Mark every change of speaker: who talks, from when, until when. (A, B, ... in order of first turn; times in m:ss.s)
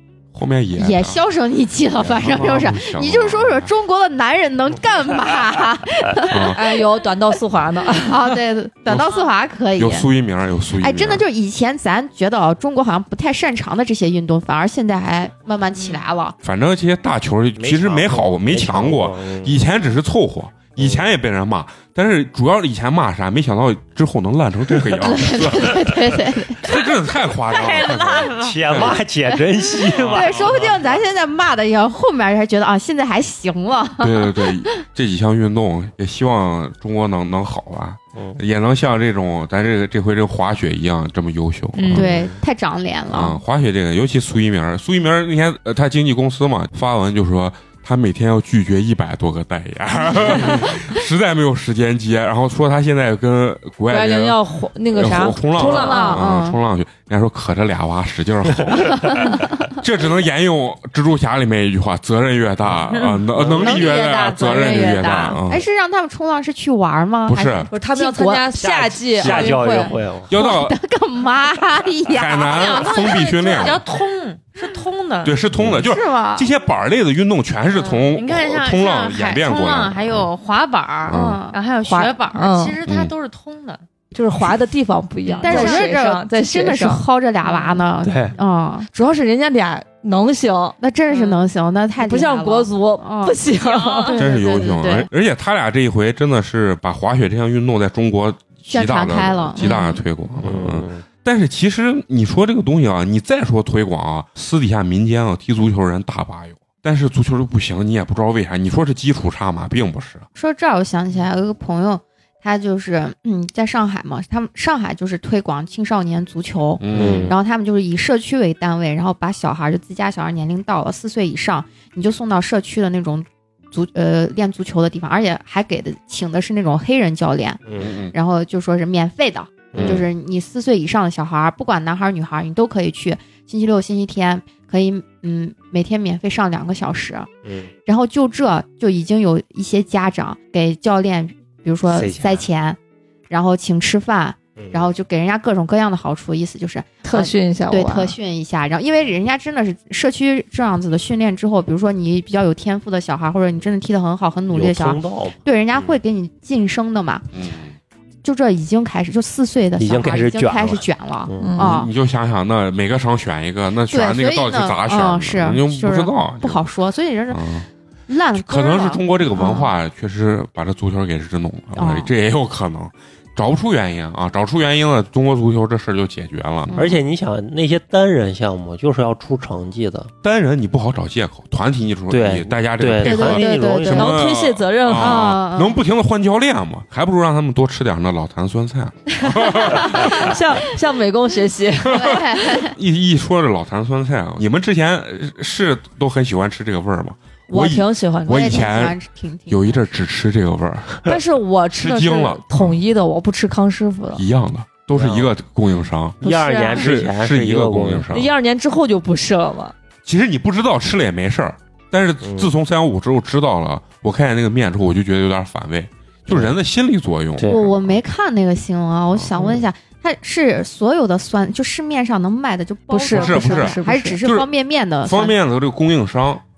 0:00.3-0:01.2 A
0:00.8-0:06.7 B
0:02.0-0:03.7 A
0:06.3-0:06.6 A
0:06.5-0:08.4 C
0:08.0-0:10.1 B
0:08.9-0:09.1 A
0:09.8-0:11.2 A
0:10.8-0:16.4 B
0:15.8-0:16.0 D
0:16.4-0:29.0 A
0:17.6-0:19.6 E
0:20.8-0:21.1 E
0:25.0-0:26.6 B
0:27.5-0:29.0 D
0:28.4-0:31.0 E
0:29.8-0:34.5 B
0:29.9-0:30.4 A
0:34.0-0:42.1 A
0:38.2-0:38.4 E
0:41.7-0:42.0 D
0:41.9-0:43.4 B
0:42.0-0:42.3 E
0:43.1-0:54.4 A
0:53.9-0:56.3 C
0:54.9-1:05.6 A
0:55.5-0:56.6 B
1:03.3-1:03.9 E
1:03.6-1:05.4 C
1:03.8-1:08.5 B
1:07.3-1:07.7 A
1:07.7-1:10.0 C
1:08.5-1:10.3 E
1:09.2-1:09.7 B
1:10.3-1:10.8 A
1:10.3-1:13.7 B
1:12.1-1:13.8 A
1:12.5-1:15.4 D
1:15.2-1:20.3 A
1:15.6-1:15.8 E
1:15.8-1:16.5 B
1:18.1-1:23.8 D
1:21.1-1:21.4 A
1:21.1-1:21.6 B
1:21.8-1:22.8 C
1:22.9-1:23.1 A
1:24.1-1:27.0 C
1:25.2-1:25.9 D
1:25.4-1:28.9 B
1:27.5-1:27.7 D
1:28.0-1:28.4 E
1:28.9-1:30.8 C
1:30.8-1:33.4 B
1:31.1-1:31.4 D
1:32.0-1:34.2 C
1:33.5-1:34.8 D
1:34.1-1:35.1 B
1:34.2-1:50.3 A
1:38.7-1:39.7 B
1:39.6-1:40.0 D
1:40.4-1:41.0 E
1:50.4-2:07.6 B
1:56.8-1:57.4 A
1:56.9-1:57.4 E
2:07.7-2:07.9 E
2:07.8-2:08.2 A
2:08.1-2:17.3 B
2:09.7-2:10.0 E
2:17.4-2:17.7 E
2:17.9-2:22.8 B
2:21.9-2:22.4 E
2:23.3-2:37.2 B
2:24.6-2:24.9 E
2:27.0-2:28.2 C
2:34.5-2:35.4 E
2:37.3-2:37.8 A
2:38.2-2:41.9 B
2:39.8-2:41.6 E
2:41.4-2:41.7 C
2:41.6-2:46.6 A
2:43.9-2:47.4 B
2:47.3-2:47.7 A
2:48.1-2:49.7 B
2:48.4-2:56.8 A
2:51.8-2:52.1 B
2:56.7-2:57.0 B
2:56.8-3:00.1 E
3:00.2-3:10.4 A
3:02.1-3:04.2 E
3:03.0-3:04.2 B
3:03.9-3:05.4 C
3:04.9-3:05.8 B
3:09.2-3:12.4 C
3:11.9-3:19.0 A
3:11.9-3:12.8 B
3:17.5-3:18.6 C
3:18.2-3:19.9 B
3:19.5-3:21.1 A
3:21.0-3:24.2 C
3:21.8-3:22.8 A
3:24.2-3:28.3 A
3:24.9-3:25.3 E
3:26.2-3:28.1 E
3:26.2-3:26.9 C
3:28.1-3:29.7 C
3:30.0-3:38.0 A
3:32.2-3:32.5 E
3:37.5-3:45.4 B
3:42.9-3:44.2 C
3:43.1-3:44.5 A
3:45.0-3:46.4 A